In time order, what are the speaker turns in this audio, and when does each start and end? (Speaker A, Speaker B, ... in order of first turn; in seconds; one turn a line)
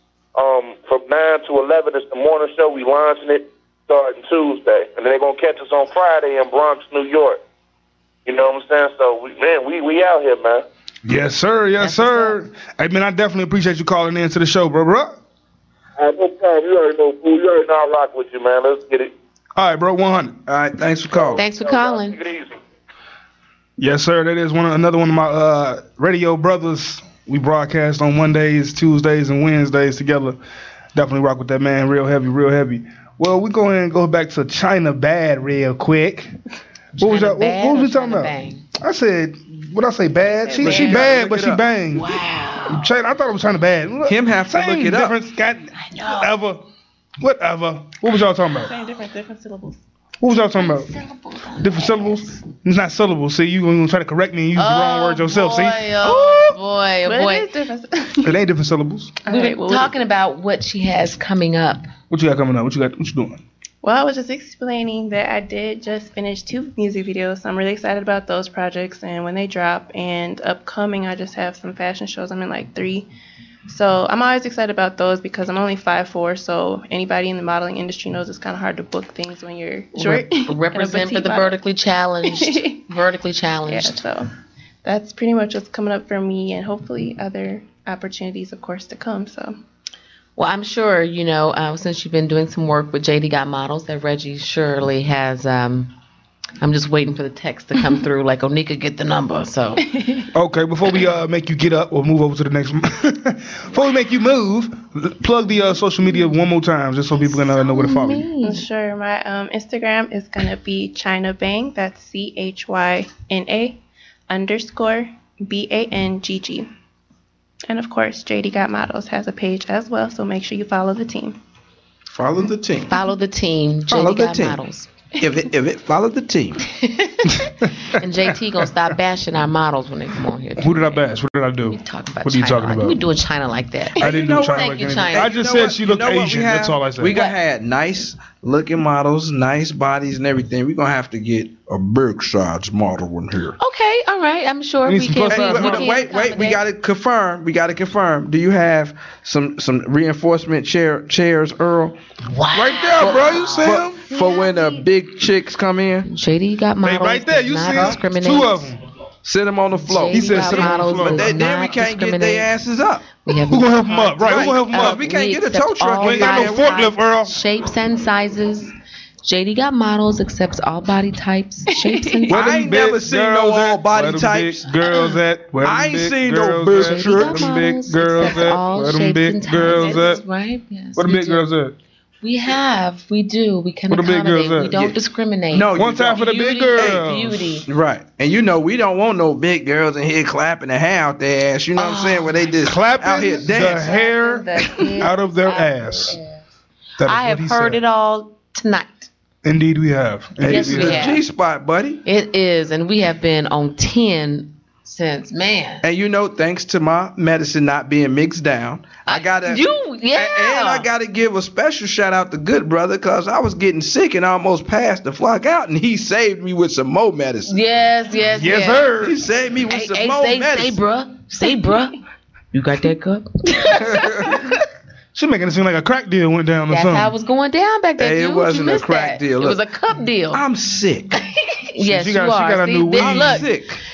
Speaker A: 0.3-7.4
Speaker A: 8.2-10.6
Speaker B: 11.0-15.2
Speaker C: 11.8-12.4
Speaker A: 16.0-19.1
Speaker B: 19.6-20.4
Speaker D: 20.5-21.4
Speaker C: 21.4-22.2
Speaker A: 21.4-22.6
Speaker B: 23.8-30.4
Speaker B: 30.9-36.3
Speaker B: 37.0-42.1
Speaker C: 37.0-38.6
Speaker E: 40.2-41.0
Speaker D: 40.6-41.6
Speaker C: 40.7-41.0
Speaker C: 41.9-42.9
Speaker B: 42.7-46.6
Speaker D: 44.1-45.1
Speaker C: 45.8-46.3
Speaker B: 47.2-48.7
Speaker E: 48.6-49.8
Speaker B: 50.2-50.9
Speaker C: 50.5-52.3
Speaker B: 51.6-56.5
Speaker C: 54.5-57.5
Speaker E: 57.0-58.4
Speaker B: 58.2-59.1
Speaker E: 59.2-59.9
Speaker C: 59.3-61.9
Speaker B: 62.1-63.4
Speaker E: 63.8-73.1
Speaker E: 73.7-81.6
Speaker C: 80.0-84.0
Speaker E: 82.2-82.8
Speaker E: 83.7-84.3
Speaker E: 84.8-89.6
Speaker C: 90.4-95.9
Speaker C: 96.6-99.8
Speaker E: 99.8-100.2
Speaker B: 100.3-108.3
Speaker C: 107.3-108.7
Speaker E: 108.4-116.7
Speaker E: 117.7-121.4
Speaker D: 122.1-123.0
Speaker C: 122.9-124.9
Speaker D: 123.9-124.6
Speaker D: 125.2-126.6
Speaker C: 126.7-131.1
Speaker B: 130.6-133.0
Speaker C: 131.7-135.3
Speaker B: 134.0-137.1
Speaker D: 134.0-143.6
Speaker C: 137.1-137.3
Speaker C: 143.6-146.6
Speaker B: 144.8-146.0
Speaker D: 145.3-151.9
Speaker C: 152.2-154.8
Speaker D: 152.5-156.1
Speaker C: 156.1-158.7
Speaker B: 156.8-158.8
Speaker D: 159.2-163.1
Speaker C: 159.8-162.5
Speaker B: 160.1-161.4
Speaker C: 163.2-172.4
Speaker B: 163.4-165.0
Speaker D: 164.2-166.8
Speaker B: 166.0-167.3
Speaker E: 171.7-172.5
Speaker B: 172.3-180.2
Speaker D: 172.3-174.6
Speaker D: 175.6-177.6
Speaker C: 176.7-181.4
Speaker E: 179.7-180.1
Speaker B: 180.9-181.7
Speaker C: 182.2-187.7
Speaker B: 183.9-184.8
Speaker D: 185.5-187.1
Speaker B: 185.7-187.6
Speaker D: 187.7-193.9
Speaker C: 191.8-192.5
Speaker B: 192.6-196.2
Speaker C: 193.7-196.2
Speaker B: 197.0-197.8
Speaker C: 197.0-199.1
Speaker B: 199.4-201.1
Speaker D: 200.4-202.0
Speaker C: 200.4-201.2
Speaker C: 202.0-205.8
Speaker D: 205.8-217.5
Speaker C: 209.1-210.9
Speaker C: 217.4-218.9
Speaker B: 218.4-219.2
Speaker D: 219.0-220.8
Speaker C: 219.7-221.9
Speaker C: 222.5-224.5
Speaker D: 223.8-224.3
Speaker B: 225.1-227.1
Speaker C: 226.7-230.4
Speaker D: 228.0-229.6
Speaker D: 230.3-231.2
Speaker C: 231.2-233.5
Speaker B: 231.8-233.5
Speaker D: 233.0-233.8